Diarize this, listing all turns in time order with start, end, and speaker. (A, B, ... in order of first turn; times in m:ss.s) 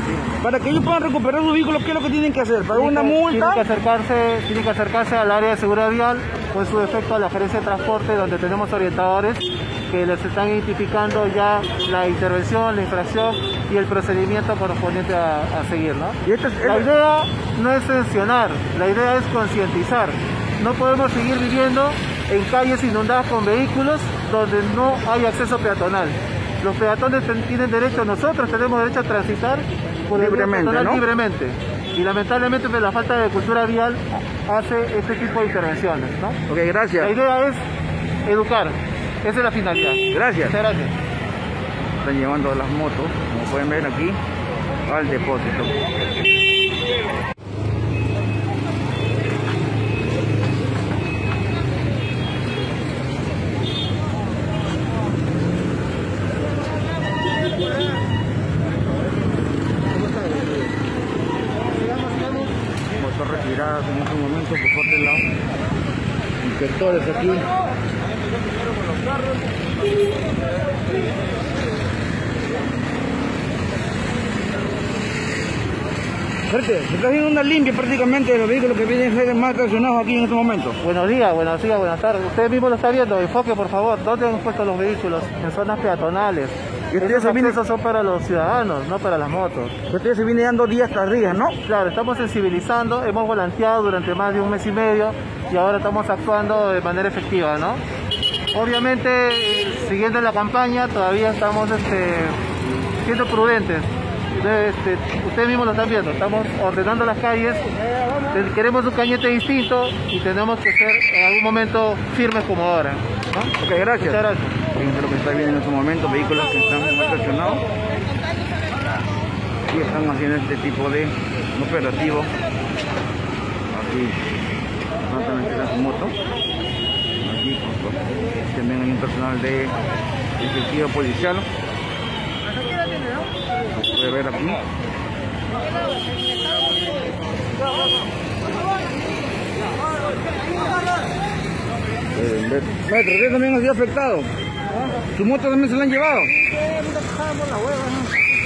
0:00.3-0:03.6 A
0:02.7-0:36.4 B
0:16.2-0:16.9 A
0:30.1-0:31.0 A
0:36.5-0:37.1 A
0:37.0-0:37.6 B
0:38.2-0:40.9 B
0:40.1-0:40.6 A
0:42.0-0:44.2 A
0:44.8-0:45.8 A
1:00.0-1:00.5 B
1:02.0-1:02.3 B
1:03.0-1:05.3 A
1:06.5-1:07.4 A
1:16.5-1:20.8 A
1:20.8-1:29.8 B
1:26.9-1:27.6 A
1:29.9-1:31.6 A
1:31.6-1:37.8 B
1:38.5-1:42.4 B
1:43.0-1:47.7 B
1:48.3-1:54.6 B
1:53.6-1:57.6 A
1:59.7-2:02.3 A
2:03.7-2:04.2 A
2:05.1-2:06.2 A
2:07.2-2:09.8 A
2:10.4-2:11.5 A
2:13.7-2:14.6 A
2:22.1-2:24.3 A
2:25.1-2:26.4 A
2:27.4-2:27.9 B